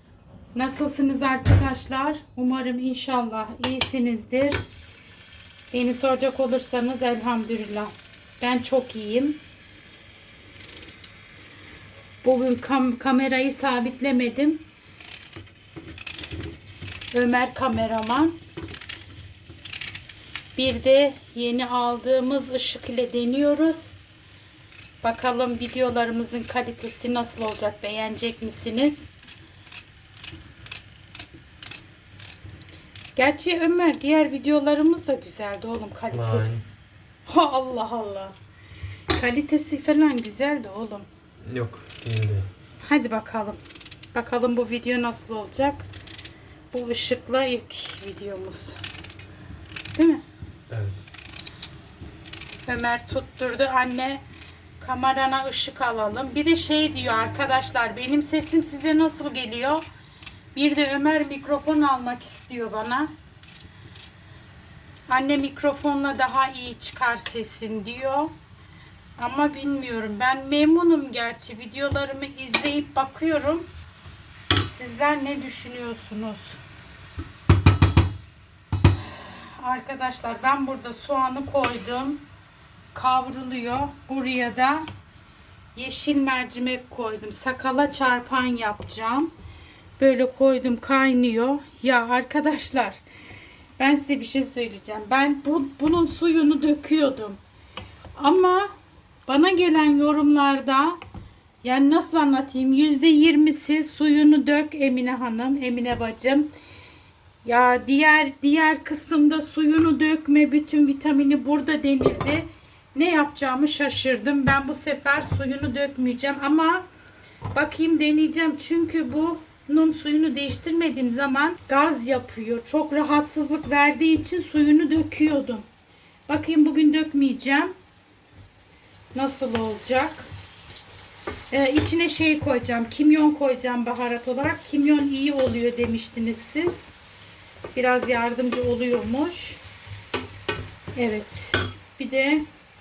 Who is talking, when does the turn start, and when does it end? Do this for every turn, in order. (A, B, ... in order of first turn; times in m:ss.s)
0:00.5-0:04.6 A
0:05.7-0:09.4 A
0:12.2-0:14.6 A
0:17.1-0:18.4 A
0:20.5-0:24.0 A
0:25.0-0:29.1 A
0:33.1-0:36.7 A
0:36.1-0:36.6 B
0:37.2-0:38.4 A
0:39.1-0:41.1 A
0:41.5-0:42.5 B
0:42.8-0:43.6 A
0:44.1-0:45.9 A
0:46.7-0:48.8 A
0:49.9-0:50.2 A
0:50.7-0:51.0 B
0:52.7-0:54.2 A
0:54.8-0:59.8 A
1:00.5-1:03.1 A
1:05.1-1:08.3 A
1:09.2-1:13.7 A
1:14.6-1:16.6 A
1:19.0-1:22.2 A
1:22.9-1:24.9 A
1:25.7-1:29.3 A
1:30.0-1:33.0 A
1:33.8-1:37.4 A
1:38.1-1:38.7 A
1:39.3-1:41.0 A
1:41.6-1:46.5 A
1:47.4-1:56.8 A
1:57.5-2:05.6 A
2:06.3-2:07.7 A
2:09.1-2:10.3 A
2:11.5-2:16.9 A
2:17.7-2:19.6 A
2:21.0-2:22.4 A